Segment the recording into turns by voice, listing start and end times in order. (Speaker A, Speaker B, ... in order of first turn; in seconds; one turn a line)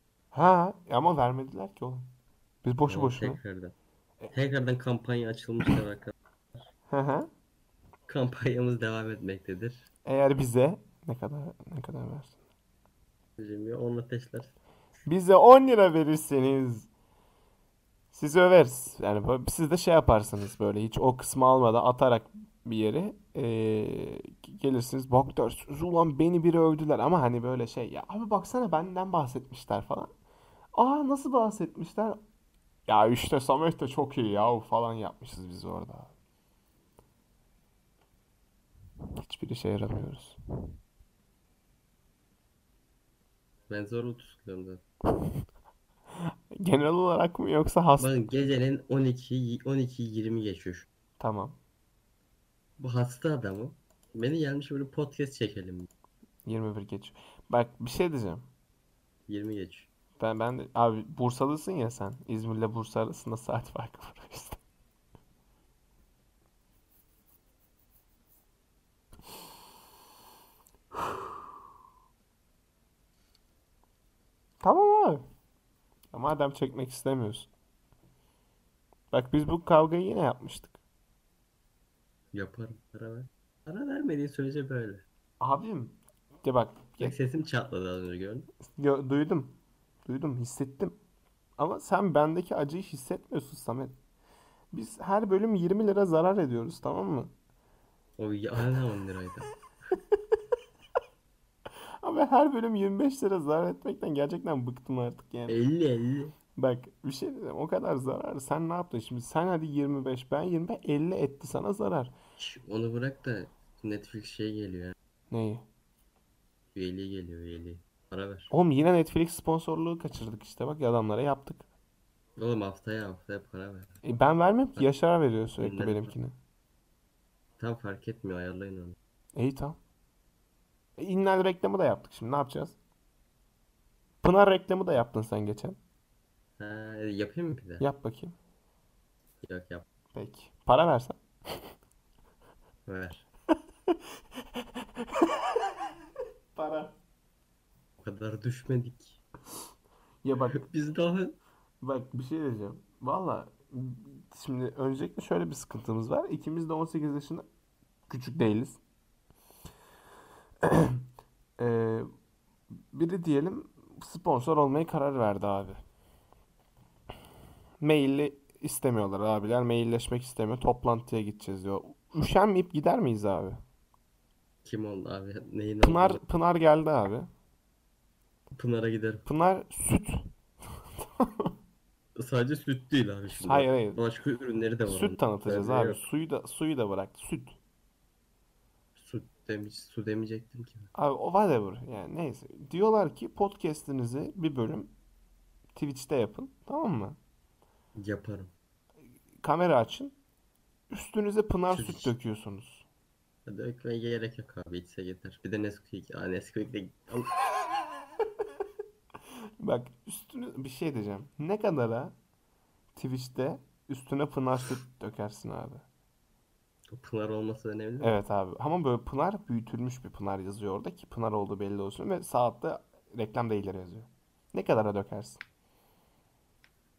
Speaker A: 0.3-2.1
Speaker A: 2.6-3.4
Speaker B: 2.9-3.8
Speaker B: 4.3-6.7
Speaker A: 6.9-7.3
Speaker B: 8.1-9.9
Speaker A: 10.1-12.4
Speaker B: 13.4-14.5
Speaker A: 15.1-16.9
Speaker A: 18.1-30.1
Speaker A: 30.7-32.2
Speaker A: 32.9-36.1
Speaker A: 39.2-40.4
Speaker B: 43.7-44.8
Speaker A: 46.2-48.2
Speaker B: 48.0-50.9
Speaker A: 51.2-51.6
Speaker B: 52.8-55.9
Speaker A: 56.5-58.5
Speaker B: 59.3-59.9
Speaker A: 60.2-64.6
Speaker A: 74.6-75.2
Speaker A: 76.1-77.5
Speaker A: 79.1-80.8
Speaker B: 82.3-85.0
Speaker A: 85.4-87.2
Speaker B: 87.0-88.5
Speaker A: 88.7-91.0
Speaker A: 91.6-94.0
Speaker A: 94.7-97.3
Speaker B: 98.2-99.5
Speaker A: 102.0-105.7
Speaker B: 105.5-106.3
Speaker A: 106.6-112.1
Speaker B: 112.4-115.0
Speaker A: 115.3-115.6
Speaker B: 116.8-118.5
Speaker A: 118.5-121.7
Speaker B: 122.4-124.0
Speaker A: 124.0-126.4
Speaker B: 125.6-126.2
Speaker B: 127.6-129.0
Speaker A: 129.3-129.8
Speaker A: 131.0-132.8
Speaker A: 134.2-135.8
Speaker B: 136.6-137.8
Speaker A: 137.8-138.3
Speaker B: 139.4-139.8
Speaker A: 140.1-141.6
Speaker B: 142.9-143.2
Speaker A: 145.0-145.8
Speaker A: 146.6-147.0
Speaker B: 148.0-149.2
Speaker A: 150.2-150.7
Speaker B: 150.5-151.4
Speaker A: 151.8-157.5
Speaker A: 158.1-158.8
Speaker A: 160.6-161.0
Speaker A: 161.6-162.1
Speaker A: 162.9-165.8
Speaker A: 167.8-173.6
Speaker B: 174.7-176.2
Speaker A: 175.8-177.3
Speaker B: 178.5-179.2
Speaker A: 179.2-180.3
Speaker A: 181.0-181.5
Speaker B: 182.2-186.0
Speaker A: 183.4-184.0
Speaker A: 184.9-187.6
Speaker B: 189.0-190.9
Speaker A: 190.9-194.9
Speaker A: 195.8-197.2
Speaker B: 197.9-198.5
Speaker A: 199.4-200.2
Speaker A: 200.9-202.9
Speaker B: 201.7-202.1
Speaker B: 203.5-207.3
Speaker A: 209.6-212.1
Speaker A: 212.9-215.8
Speaker B: 216.9-218.2
Speaker A: 218.0-225.4